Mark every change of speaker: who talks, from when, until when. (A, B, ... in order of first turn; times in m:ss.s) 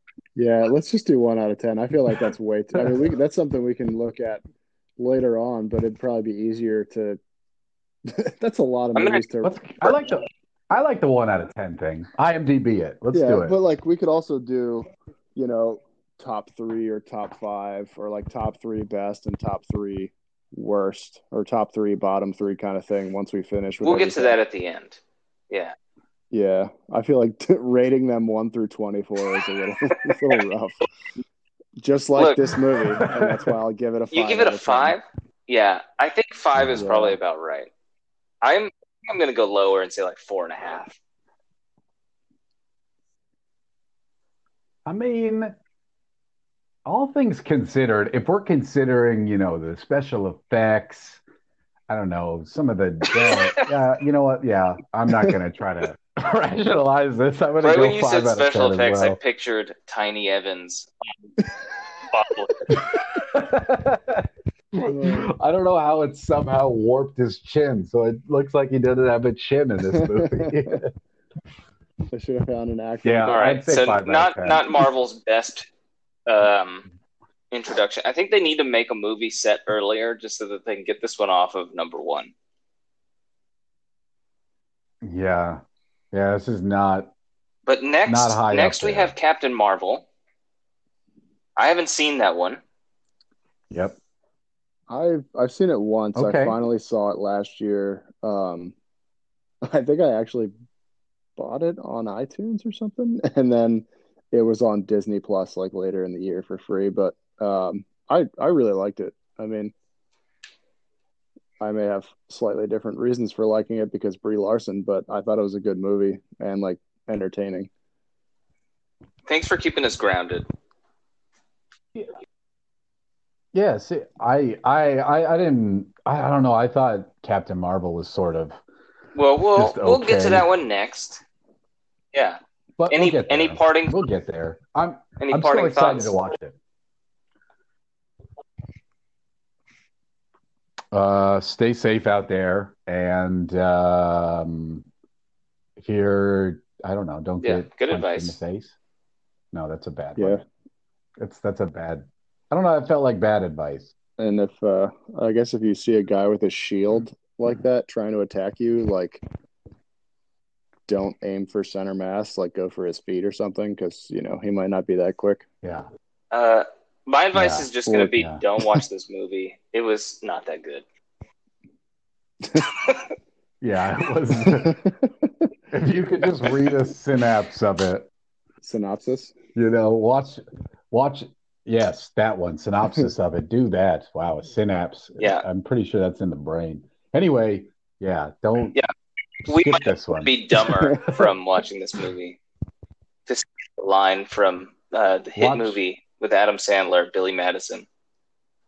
0:00.4-0:04.4 A
0:05.0-0:07.2 A
0:08.0-0:10.0 A
0:09.0-0:09.2 B
0:09.4-0:13.6 C
0:13.1-0:24.4 A
0:23.8-0:25.8 B
0:26.3-0:30.9 A
0:31.8-0:35.0 A
0:32.2-0:32.5 B
0:32.9-0:33.5 C
0:34.1-0:37.7 B
0:36.6-0:36.9 C
0:36.8-0:37.2 A
0:38.4-0:41.0 B
0:44.9-0:45.6 C
0:46.8-0:51.2 C
0:51.9-0:59.2 C
0:53.1-0:53.7 B
0:57.6-1:00.9 B
1:02.1-1:02.8 B
1:02.7-1:10.9 C
1:04.8-1:05.3 A
1:09.9-1:10.8 A
1:12.1-1:13.5 A
1:13.0-1:14.7 C
1:13.3-1:15.7 B
1:16.3-1:16.9 B
1:17.5-1:22.3 B
1:25.0-1:25.6 C
1:26.1-1:27.1 C
1:27.7-1:30.1 B
1:28.1-1:29.1 C
1:31.6-1:32.6 B
1:33.7-1:34.0 C
1:34.9-1:38.7 A
1:36.2-1:36.6 C
1:39.6-1:40.5 A
1:41.4-1:49.7 A
1:51.6-1:57.7 A
1:59.3-2:00.5 B
2:03.5-2:08.6 C
2:09.2-2:11.2 B
2:09.6-2:10.5 C
2:12.1-2:14.0 B
2:12.8-2:16.6 C
2:15.2-2:16.1 B
2:20.9-2:24.8 C
2:25.8-2:28.8 C
2:27.4-2:28.4 B
2:29.5-2:30.5 C
2:30.2-2:30.4 A
2:31.2-2:33.9 C
2:34.2-2:39.2 A
2:40.9-2:45.5 A
2:45.6-2:45.9 C
2:46.3-2:50.8 B
2:47.3-2:48.4 C
2:53.6-2:54.8 C
2:54.4-2:55.0 A
2:55.7-2:58.1 C
2:58.6-2:59.4 A
2:59.6-3:08.8 C
3:05.2-3:05.4 B
3:09.5-3:12.4 B
3:09.5-3:11.1 C
3:13.3-3:17.9 B
3:15.4-3:15.8 C